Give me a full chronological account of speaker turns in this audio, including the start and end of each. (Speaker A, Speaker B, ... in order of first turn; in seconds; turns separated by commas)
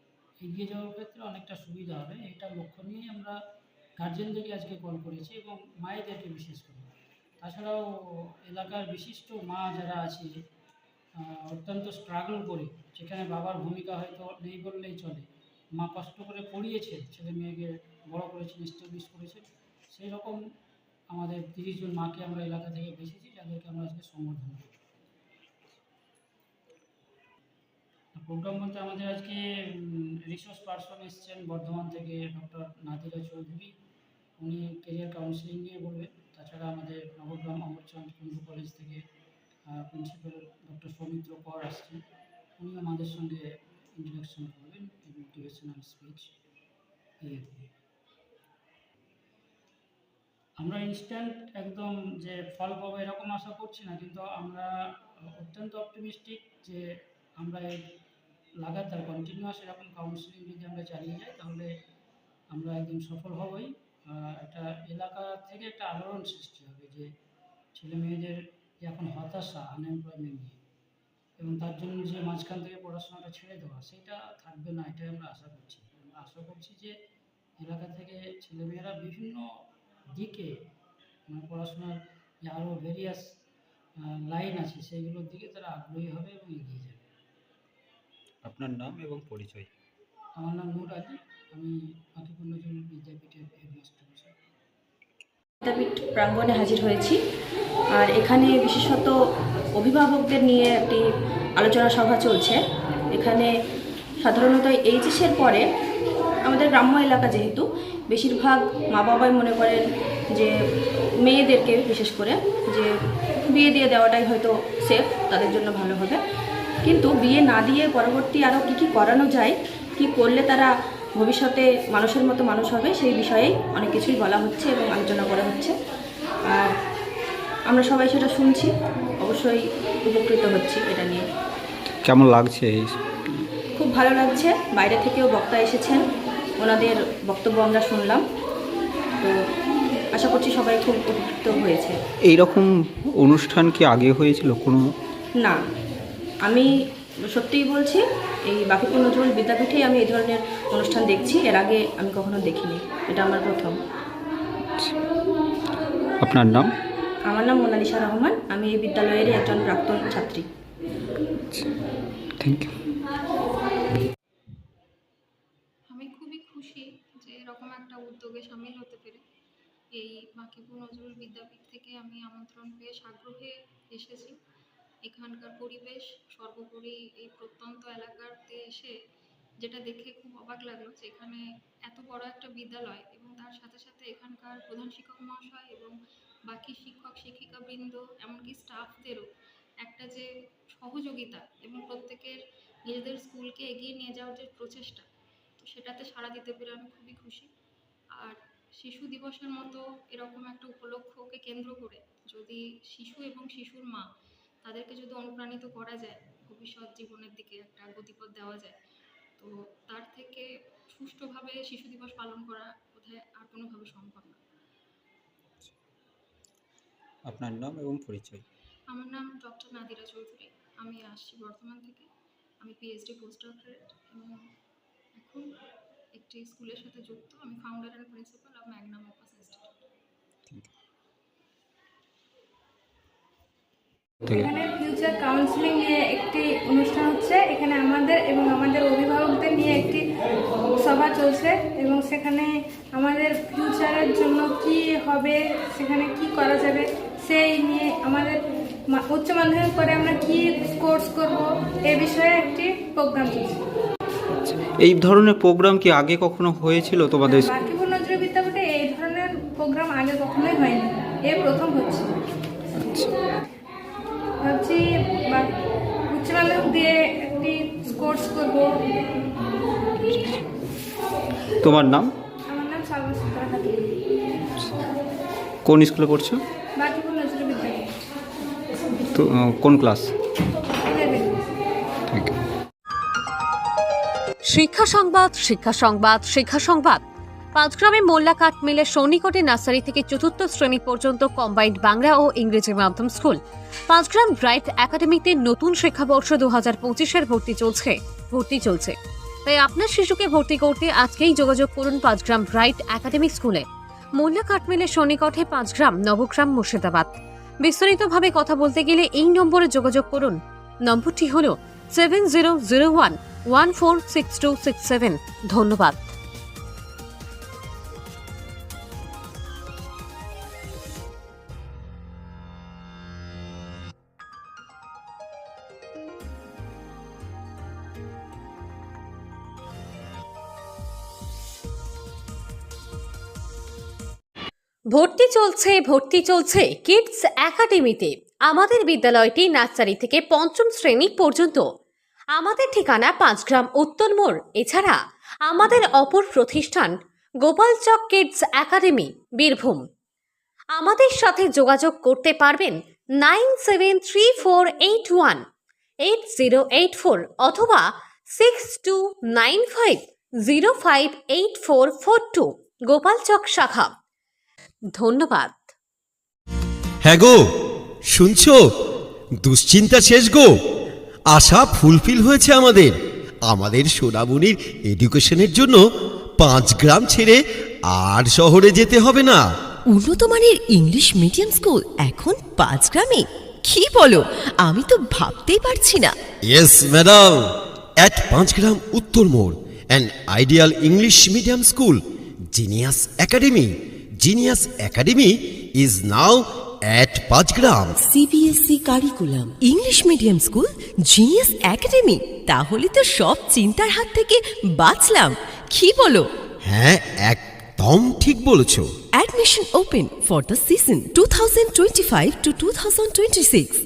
Speaker A: 0.4-3.3, Speaker A: 4.0-7.8, Speaker A: 8.5-10.3, Speaker A: 11.3-20.4, Speaker A: 21.1-24.7, Speaker A: 28.2-33.7, Speaker A: 34.4-39.0, Speaker A: 39.7-42.0, Speaker A: 42.6-43.5, Speaker A: 44.0-46.3, Speaker A: 47.2-47.7, Speaker A: 50.6-54.7, Speaker A: 55.4-56.8, Speaker A: 57.4-57.7, Speaker A: 58.6-61.7, Speaker A: 62.5-67.1, Speaker A: 67.7-70.6, Speaker A: 71.4-76.9, Speaker A: 77.6-79.4, Speaker A: 80.1-80.5, Speaker A: 81.3-83.2, Speaker A: 84.3-87.0, Speaker B: 88.4-89.7, Speaker A: 90.4-94.3, Speaker C: 95.6-97.2, Speaker C: 98.0-99.1, Speaker C: 99.8-101.0, Speaker C: 101.6-102.6, Speaker C: 103.1-103.5, Speaker C: 104.2-105.6, Speaker C: 106.5-109.8, Speaker C: 111.2-112.9, Speaker C: 113.5-116.2, Speaker C: 116.8-125.7, Speaker C: 127.7-128.7, Speaker C: 129.2-131.2, Speaker B: 132.0-132.9, Speaker C: 133.8-136.0, Speaker C: 136.6-138.2, Speaker C: 140.1-141.9, Speaker B: 142.2-144.8, Speaker C: 146.4-146.8, Speaker C: 147.3-153.8, Speaker B: 156.2-156.7, Speaker C: 157.3-160.4, Speaker B: 162.4-162.7, Speaker D: 165.9-169.2, Speaker D: 169.9-174.4, Speaker D: 175.0-178.9, Speaker D: 179.6-185.9, Speaker D: 186.4-189.3, Speaker D: 189.8-195.1, Speaker D: 195.6-197.5, Speaker D: 198.2-204.0, Speaker D: 204.6-208.8, Speaker D: 209.4-214.4, Speaker B: 217.3-218.4, Speaker D: 218.9-222.1, Speaker D: 222.6-224.4, Speaker D: 225.1-225.5, Speaker D: 226.1-229.7, Speaker E: 234.4-240.0, Speaker E: 240.7-248.4, Speaker E: 248.9-253.6, Speaker B: 254.4-257.5, Speaker E: 257.2-262.1, Speaker E: 264.4-265.5, Speaker E: 266.1-268.8, Speaker B: 271.6-272.1, Speaker E: 272.5-273.9, Speaker B: 275.6-276.4, Speaker E: 276.8-277.8, Speaker B: 279.1-280.1, Speaker E: 280.9-281.4, Speaker F: 284.5-287.0, Speaker F: 287.5-293.4, Speaker F: 293.9-298.9, Speaker F: 299.4-303.6, Speaker F: 304.2-316.0, Speaker F: 334.9-341.6, Speaker F: 342.3-346.9, Speaker F: 347.4-349.8, Speaker F: 350.7-355.4, Speaker F: 356.0-363.9, Speaker F: 364.9-365.6, Speaker G: 367.0-367.4, Speaker G: 368.1-368.6, Speaker G: 369.4-370.5, Speaker G: 371.3-372.9, Speaker G: 373.5-375.8, Speaker G: 376.4-377.4, Speaker G: 377.9-379.4, Speaker H: 379.9-386.1, Speaker G: 386.5-387.4, Speaker G: 388.0-392.0, Speaker G: 392.5-393.7, Speaker G: 394.2-398.0, Speaker H: 398.1-406.2, Speaker G: 406.6-408.9, Speaker H: 409.1-413.7